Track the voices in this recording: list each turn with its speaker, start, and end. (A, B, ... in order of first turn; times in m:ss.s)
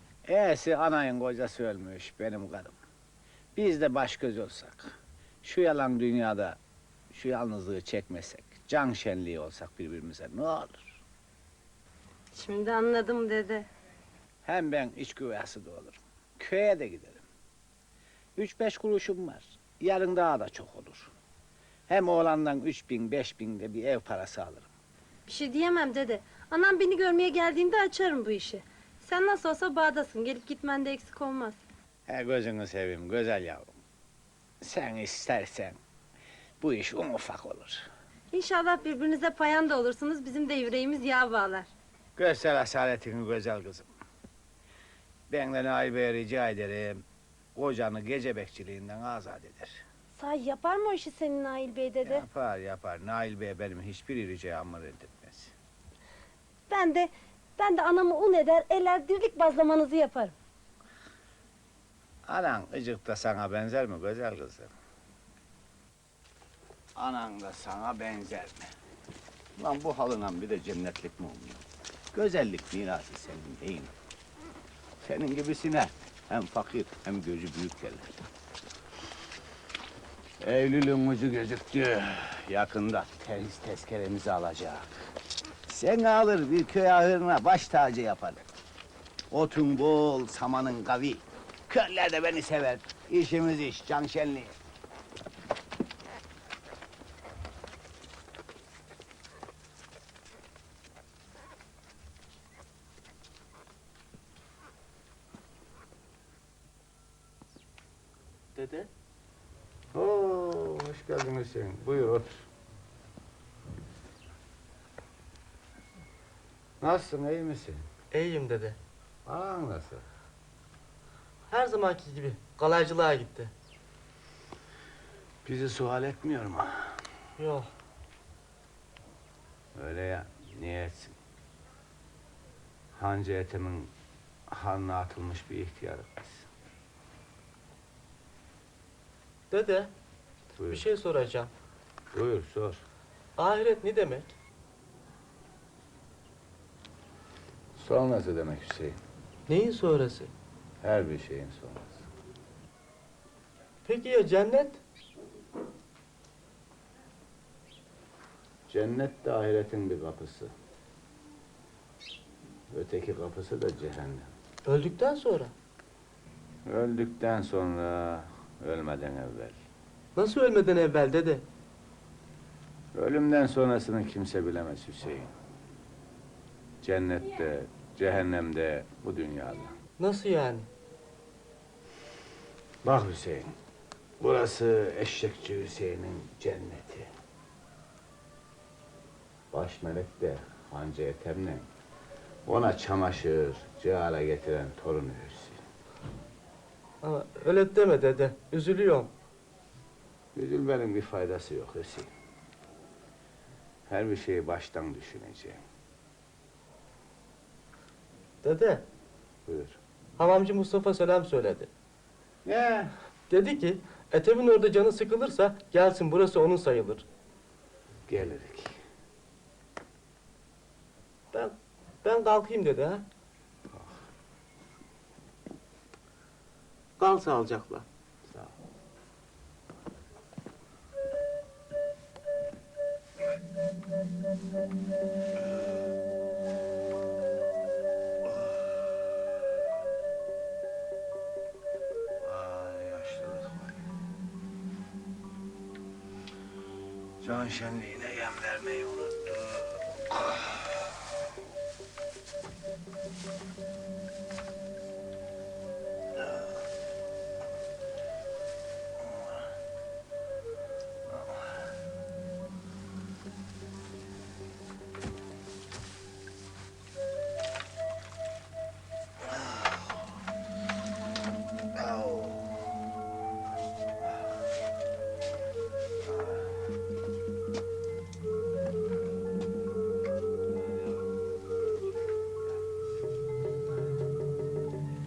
0:00.2-0:02.8 A
0:03.6-0:06.6 A
0:07.1-0:11.0 A
0:12.3-0:13.7 B
0:14.4-0:17.3 A
0:18.4-0:21.1 A
0:21.9-0:24.7 A
0:25.3-0:31.6 B
0:32.1-0:33.7 A
0:34.6-0:35.8 A
0:36.6-0:37.9 A
0:38.3-0:41.7 B
0:42.2-0:43.9 A
0:45.3-0:47.0 A
0:47.6-0:49.8 A
0:50.2-0:52.2 B
0:52.0-0:55.5 A
0:56.7-1:00.4 B
1:02.3-1:04.7 A
1:07.0-1:08.7 A
1:09.6-1:13.9 A
1:15.0-1:18.2 A
1:20.4-1:24.9 A
1:25.7-1:28.4 A
1:29.3-1:34.6 A
1:48.6-1:48.9 C
1:49.9-1:52.5 A
1:56.8-1:57.9 A
1:58.1-1:58.8 C
1:59.3-2:00.0 A
2:01.5-2:03.5 C
2:05.4-2:07.0 A
2:07.4-2:07.7 C
2:09.8-2:11.2 A
2:13.0-2:13.9 A
2:14.5-2:16.5 A
2:19.5-2:19.9 C
2:20.6-2:20.8 A
2:20.7-2:21.5 C
2:22.1-2:22.8 A
2:23.4-2:24.3 C
2:27.8-2:29.0 A
2:29.5-2:30.3 C
2:30.8-2:32.1 A
2:33.8-2:34.8 C
2:38.7-2:40.5 A
2:42.7-2:44.3 A
2:44.7-2:45.5 C
2:46.7-2:49.6 A
2:50.2-2:51.4 C
2:52.9-2:55.3 A
2:56.8-2:59.8 A
3:00.0-3:00.7 C
3:02.8-3:03.6 A
3:04.2-3:07.1 A
3:09.5-3:11.7 A
3:12.5-3:15.6 A
3:17.0-3:19.1 C
3:20.4-3:22.1 A
3:23.9-3:25.6 A
3:28.4-3:28.8 C
3:29.5-3:29.8 A
3:30.2-3:31.7 C
3:32.4-3:32.9 A
3:33.3-3:37.0 C
3:38.1-3:38.8 A
3:41.3-3:43.0 C
3:47.0-3:47.9 C
4:02.2-4:03.8 A
4:07.2-4:11.0 A
4:19.0-4:19.3 A
4:29.4-4:29.8 A
4:31.8-4:32.5 A
4:36.1-4:36.5 A
4:40.6-4:40.9 A